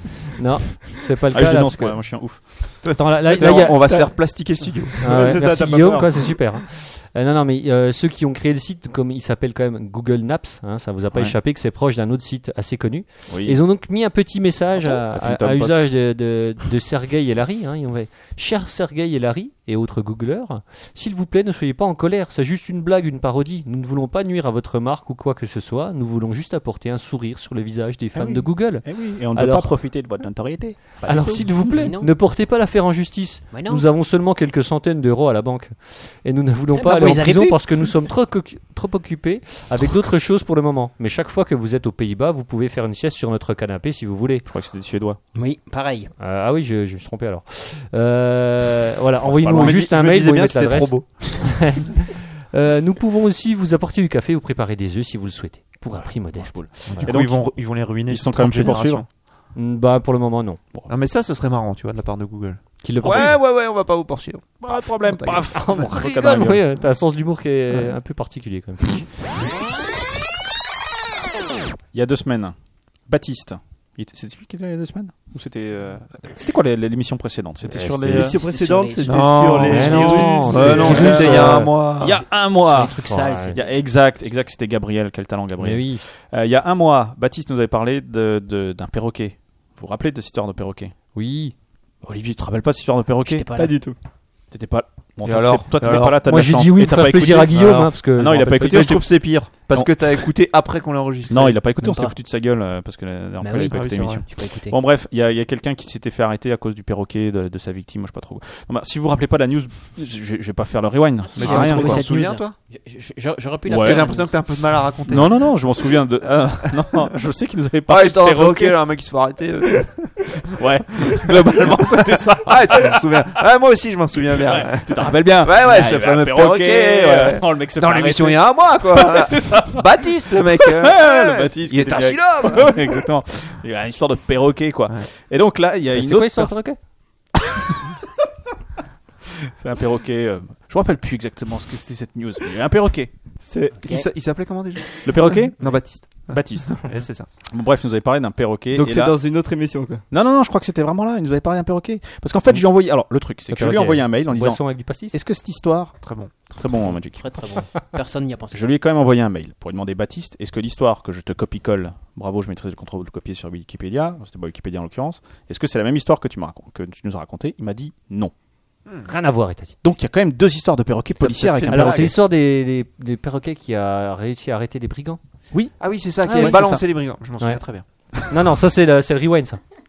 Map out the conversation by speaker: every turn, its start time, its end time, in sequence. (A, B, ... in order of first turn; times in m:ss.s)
0:00.4-0:04.4 A
0:01.3-0:03.0 B
0:02.8-0:05.3 C
0:05.0-0:06.4 D
0:05.0-0:30.0 A
0:13.3-0:13.6 B
0:14.8-0:16.0 B
0:28.1-0:31.7 B
0:31.0-0:44.4 A
0:31.3-0:32.1 E
0:33.5-0:33.8 E
0:36.7-0:37.9 E
0:44.4-0:45.2 B
0:45.3-0:46.1 E
0:46.2-0:57.1 A
0:49.2-0:49.8 B
0:49.4-0:51.8 C
0:56.0-0:59.0 B
0:56.8-0:59.1 C
0:59.5-1:00.6 A
1:00.9-1:05.7 C
1:02.8-1:03.4 A
1:03.0-1:03.4 B
1:04.6-1:06.6 B
1:05.5-1:09.2 A
1:11.9-1:18.4 B
1:17.6-1:18.3 A
1:18.1-1:21.2 D
1:18.4-1:19.9 E
1:19.0-1:22.2 C
1:19.6-1:21.7 A
1:19.8-1:30.9 B
1:20.6-1:21.1 E
1:22.0-1:23.8 E
1:23.0-1:23.6 A
1:25.6-1:26.0 A
1:31.1-1:31.5 A
1:32.0-1:33.5 B
1:33.2-1:33.8 E
1:33.5-1:34.0 D
1:34.5-1:40.3 B
1:35.2-1:36.4 C
1:36.2-1:39.0 A
1:37.5-1:41.6 C
1:41.3-1:52.1 B
1:41.8-1:42.2 E
1:43.4-1:44.8 E
1:43.7-1:44.2 C
1:51.3-1:54.4 E
1:51.3-1:52.6 C
1:53.7-1:54.1 B
1:53.7-1:55.6 C
1:55.1-1:58.8 B
1:56.7-1:57.1 C
1:57.9-2:00.4 C
2:00.5-2:03.0 B
2:00.9-2:13.0 C
2:04.3-2:16.6 B
2:15.9-2:16.8 A
2:17.3-2:17.6 B
2:19.6-2:23.1 B
2:23.4-2:23.9 D
2:23.8-2:27.3 C
2:25.0-2:26.9 B
2:27.4-2:29.1 B
2:28.7-2:30.0 D
2:30.1-2:36.0 B
2:33.5-2:35.2 A
2:36.0-2:36.3 C
2:36.5-2:37.2 B
2:36.9-2:38.7 E
2:38.5-2:48.3 B
2:49.0-2:49.7 A
2:49.8-2:52.2 B
2:51.2-2:52.2 C
2:51.7-2:55.2 A
2:55.5-2:56.8 B
2:55.8-2:57.8 C
2:56.2-2:56.8 A
2:57.4-2:59.6 A